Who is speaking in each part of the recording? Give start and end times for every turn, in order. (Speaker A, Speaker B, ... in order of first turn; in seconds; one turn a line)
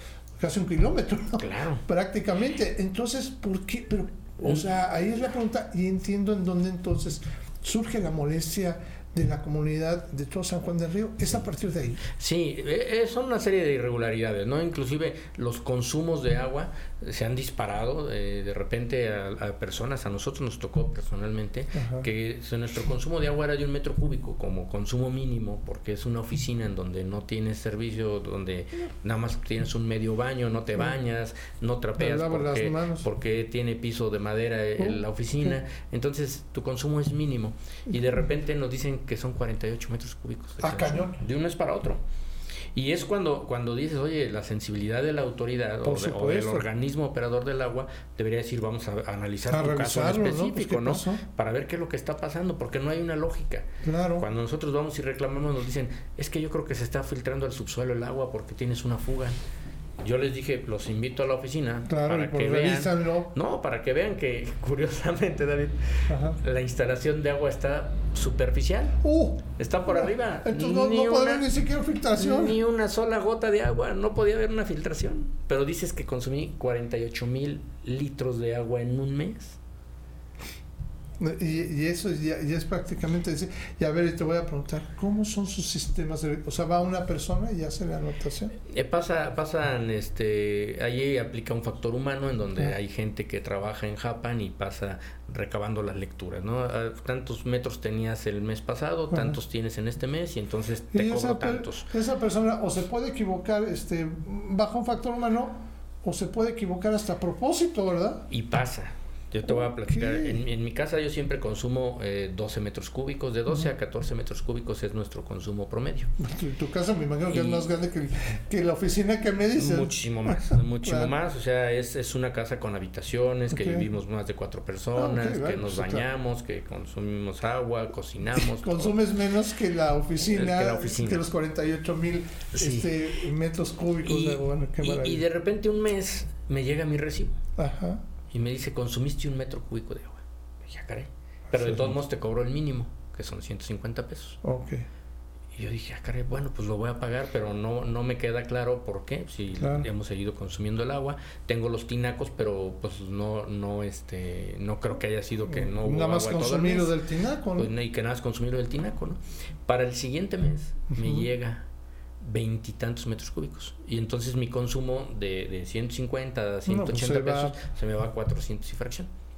Speaker A: 0.4-12.0
Speaker B: 1.4-1.8
Speaker B: 12.1-42.0
Speaker A: 21.7-22.1
Speaker A: 32.0-33.0
Speaker A: 34.8-35.5
Speaker A: 40.6-41.2
Speaker B: 42.7-59.4
Speaker A: 45.8-46.7
Speaker A: 49.5-51.2
Speaker A: 53.8-54.3
Speaker B: 60.0-69.0
Speaker A: 61.9-63.3
Speaker A: 66.1-66.4
Speaker A: 69.0-72.6
Speaker B: 69.6-71.5
Speaker B: 72.2-79.6
Speaker A: 81.2-88.5
Speaker B: 88.6-101.9
Speaker A: 99.1-99.4
Speaker A: 100.9-108.3
Speaker B: 108.3-116.1
Speaker A: 109.5-110.4
Speaker A: 116.2-121.1
Speaker B: 117.3-117.7
Speaker B: 119.6-128.9
Speaker A: 123.5-123.9
Speaker A: 124.9-126.1
Speaker A: 128.3-135.2
Speaker B: 130.2-131.2
Speaker B: 132.5-132.9
Speaker B: 134.0-137.4
Speaker A: 137.6-138.0
Speaker B: 138.3-144.4
Speaker A: 141.5-142.0
Speaker A: 144.4-144.8
Speaker B: 145.6-156.9
Speaker A: 149.6-149.9
Speaker A: 155.4-157.7
Speaker B: 157.5-161.6
Speaker A: 160.9-161.2
Speaker B: 162.2-169.1
Speaker A: 166.7-167.6